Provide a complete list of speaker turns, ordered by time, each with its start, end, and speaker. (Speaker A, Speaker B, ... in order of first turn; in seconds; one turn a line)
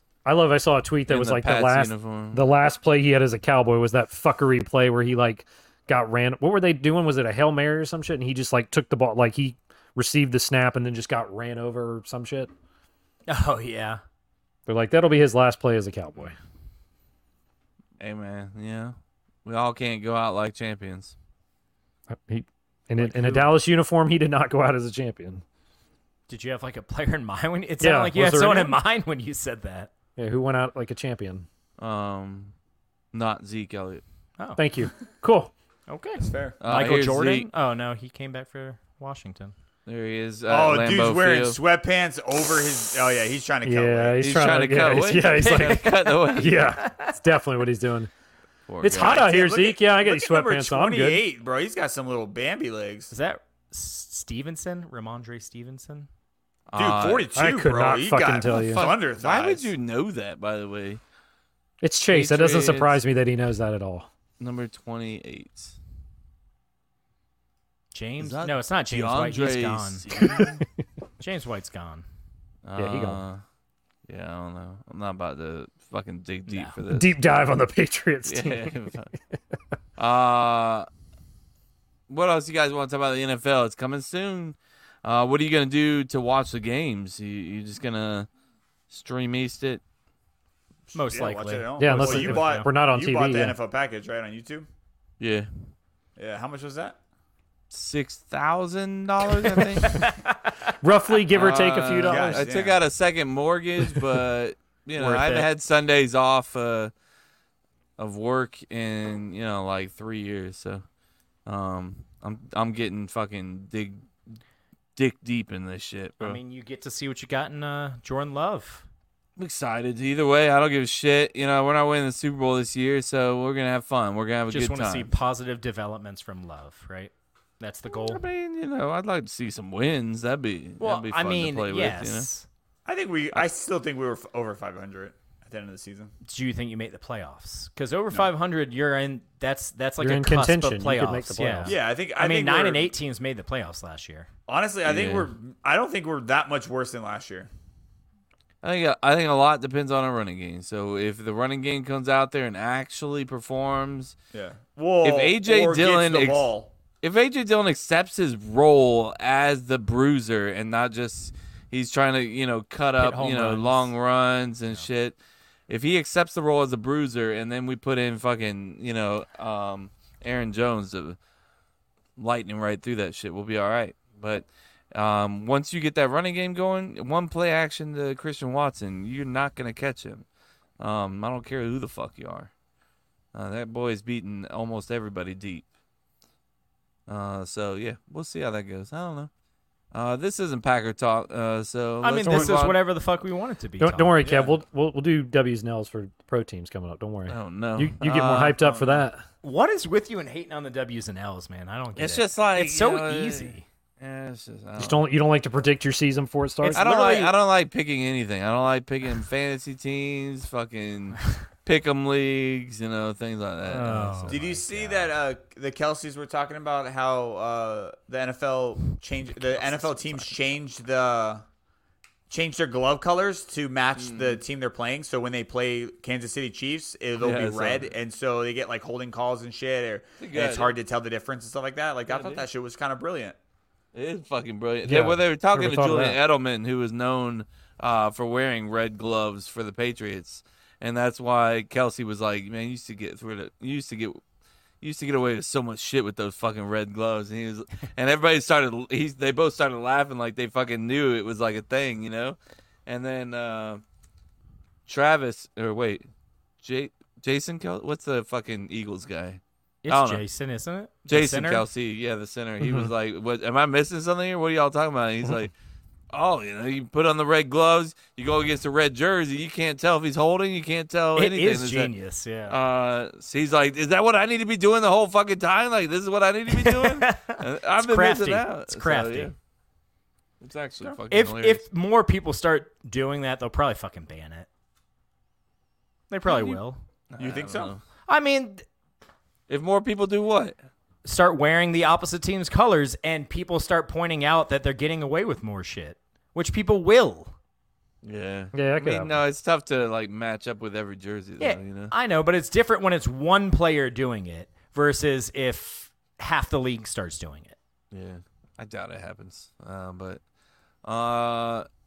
Speaker A: 0.2-12.5
Speaker B: 1.1-2.5
Speaker C: 13.3-14.0
Speaker A: 14.7-16.4
Speaker B: 18.0-21.1
Speaker A: 22.1-25.4
Speaker C: 23.0-23.5
Speaker C: 26.3-29.9
Speaker A: 27.8-28.8
Speaker A: 30.1-31.5
Speaker B: 31.8-32.5
Speaker B: 33.1-34.0
Speaker C: 34.4-34.6
Speaker A: 34.6-35.5
Speaker C: 35.9-39.5
Speaker D: 36.2-36.6
Speaker B: 36.6-37.5
Speaker B: 39.9-41.6
Speaker D: 40.5-44.2
Speaker A: 43.6-48.1
Speaker B: 44.2-46.6
Speaker C: 45.3-47.2
Speaker B: 48.7-49.2
Speaker A: 48.8-51.2
Speaker D: 48.9-53.1
Speaker C: 53.1-56.1
Speaker B: 56.7-57.3
Speaker D: 56.8-59.7
Speaker A: 57.4-58.9
Speaker B: 58.5-61.0
Speaker A: 61.8-64.1
Speaker B: 62.1-63.0
Speaker B: 64.4-65.8
Speaker C: 67.9-70.4
Speaker B: 68.2-70.6
Speaker A: 70.2-70.6
Speaker C: 71.2-72.0
Speaker B: 72.6-73.4
Speaker A: 72.8-73.2
Speaker B: 74.1-77.1
Speaker C: 76.5-76.8
Speaker A: 76.9-78.8
Speaker B: 78.2-79.1
Speaker B: 80.0-80.9
Speaker B: 82.1-88.3
Speaker B: 88.9-89.8
Speaker D: 90.9-94.7
Speaker C: 90.9-92.7
Speaker A: 91.8-93.5
Speaker B: 95.2-95.5
Speaker D: 96.2-97.0
Speaker B: 97.7-100.0
Speaker C: 99.8-100.5
Speaker A: 100.8-102.4
Speaker B: 101.3-106.9
Speaker D: 102.0-102.8
Speaker C: 105.0-105.5
Speaker B: 108.0-110.8
Speaker B: 111.5-114.4
Speaker B: 115.0-116.4
Speaker C: 116.2-118.8
Speaker B: 119.4-125.1
Speaker C: 124.5-128.2
Speaker B: 127.9-132.3
Speaker C: 130.8-132.5
Speaker D: 132.8-136.1
Speaker C: 136.2-144.3
Speaker A: 140.0-141.8
Speaker D: 141.7-142.9
Speaker D: 144.5-147.5
Speaker B: 144.8-145.3
Speaker B: 148.6-154.2
Speaker D: 154.3-156.7
Speaker B: 155.0-156.5
Speaker B: 157.0-165.2
Speaker C: 163.0-163.9
Speaker B: 165.7-171.2
Speaker B: 172.2-180.2
Speaker B: 180.8-182.5
Speaker B: 183.3-185.7
Speaker B: 187.1-189.3
Speaker B: 189.9-192.8
Speaker C: 192.0-194.2
Speaker A: 192.3-192.6
Speaker A: 193.8-199.2
Speaker B: 197.3-199.0
Speaker C: 199.4-203.7
Speaker B: 202.0-205.1
Speaker A: 204.8-206.9
Speaker C: 206.6-207.3
Speaker B: 206.7-214.4
Speaker C: 213.7-215.1
Speaker D: 214.3-221.4
Speaker C: 219.3-220.3
Speaker D: 222.3-233.3
Speaker B: 224.0-224.4
Speaker B: 227.2-227.9
Speaker B: 230.2-230.8
Speaker B: 232.1-232.5
Speaker B: 233.9-244.2
Speaker A: 234.8-236.2
Speaker B: 244.8-253.8
Speaker B: 254.9-256.1
Speaker B: 256.6-260.2
Speaker C: 259.8-261.6
Speaker B: 261.1-265.5
Speaker A: 262.6-262.9
Speaker B: 266.1-271.9
Speaker C: 271.2-272.6
Speaker B: 272.5-279.3
Speaker C: 276.5-279.3
Speaker B: 280.4-281.6
Speaker C: 281.1-284.5
Speaker C: 286.1-286.8
Speaker B: 286.2-286.6
Speaker B: 287.1-287.8
Speaker D: 287.2-287.7
Speaker C: 288.1-288.6
Speaker B: 289.5-290.6
Speaker C: 291.0-297.3
Speaker B: 298.0-301.9
Speaker A: 298.5-299.2
Speaker C: 301.4-307.6
Speaker B: 307.9-310.2
Speaker B: 310.8-311.7